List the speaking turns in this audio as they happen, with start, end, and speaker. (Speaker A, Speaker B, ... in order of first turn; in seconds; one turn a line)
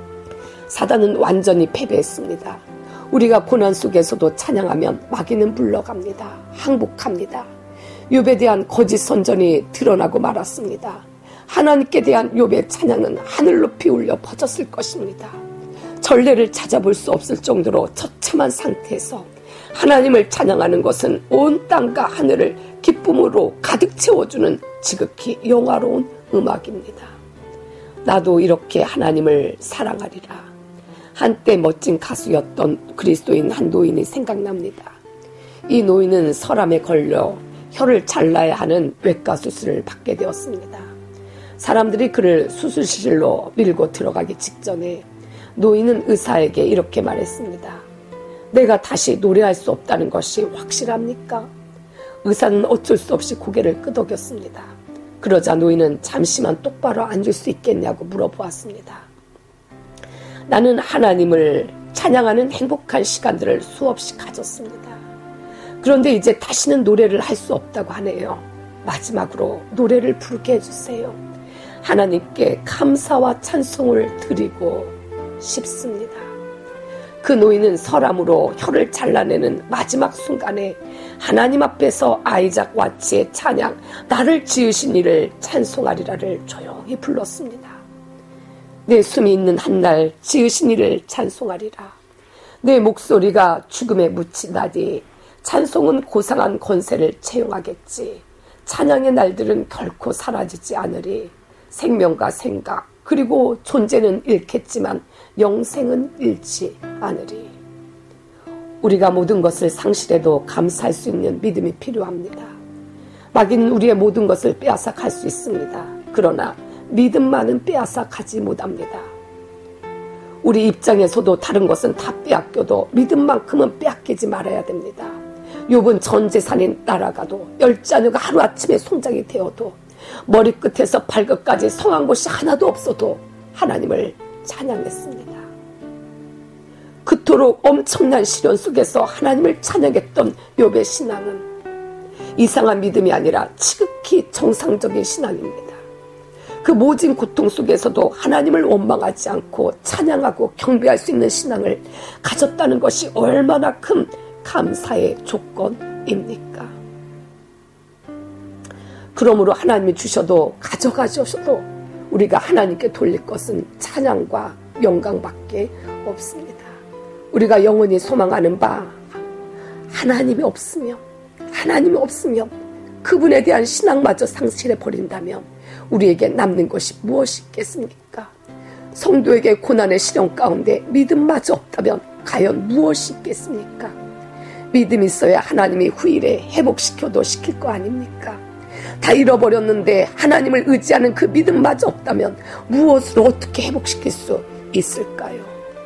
Speaker A: 0.7-7.5
Speaker A: 8.1-15.4
Speaker A: 16.0-27.1
Speaker A: 28.0-30.5
Speaker A: 31.1-35.0
Speaker A: 35.7-40.9
Speaker A: 41.6-47.8
Speaker A: 48.5-51.5
Speaker A: 52.2-59.1
Speaker A: 60.5-65.0
Speaker A: 65.8-71.2
Speaker A: 71.8-76.3
Speaker A: 77.2-87.8
Speaker A: 88.8-91.9
Speaker A: 92.6-107.5
Speaker A: 108.8-112.5
Speaker A: 113.3-119.1
Speaker A: 120.4-135.5
Speaker A: 137.0-141.4
Speaker A: 142.3-145.8
Speaker A: 146.6-156.8
Speaker A: 159.1-166.8
Speaker A: 167.3-169.0
Speaker A: 169.9-178.3
Speaker A: 178.9-183.9
Speaker A: 184.7-188.4
Speaker A: 189.0-195.5